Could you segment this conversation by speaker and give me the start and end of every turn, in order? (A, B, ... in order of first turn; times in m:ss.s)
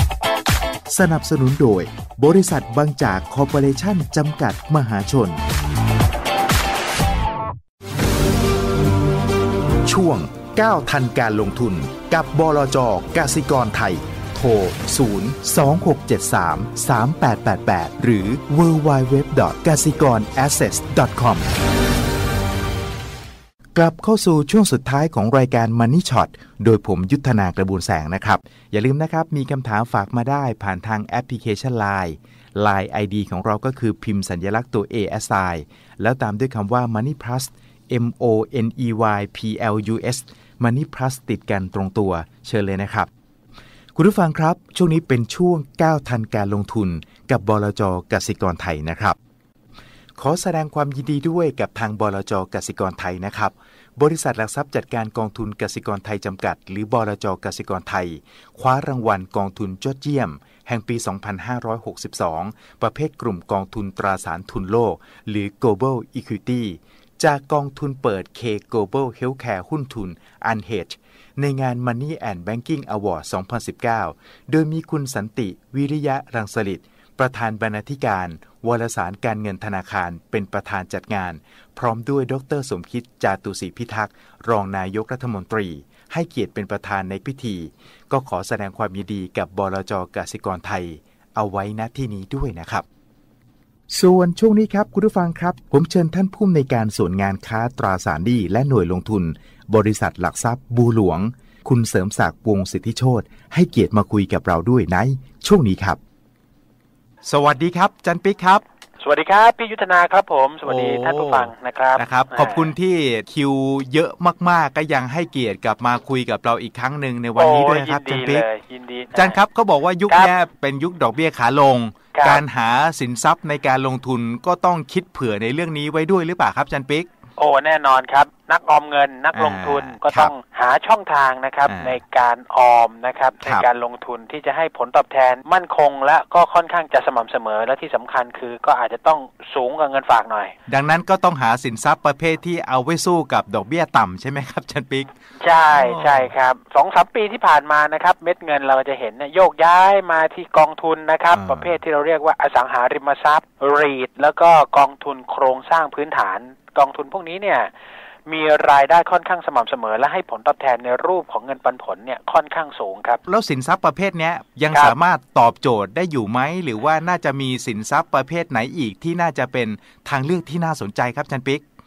0:00.9-0:05.4 A
0:09.9-0:21.5 A
0:23.8-0:43.1 A
0:44.0-0:49.2 A
0:50.2-1:32.8 A
1:33.9-1:46.0 A
1:47.3-1:48.6 A
1:49.0-1:52.8 B
1:50.7-1:58.4 A
1:57.3-2:00.4 B
1:59.2-2:07.1 A
2:02.0-2:02.6 B
2:07.4-2:20.6 B
2:09.3-2:10.3 A
2:11.7-2:12.0 A
2:20.7-2:25.0 A
2:25.4-2:37.7 B
2:25.7-2:26.3 A
2:31.3-2:31.8 A
2:38.3-2:43.2 B
2:43.3-2:51.6 A
2:44.7-2:45.2 B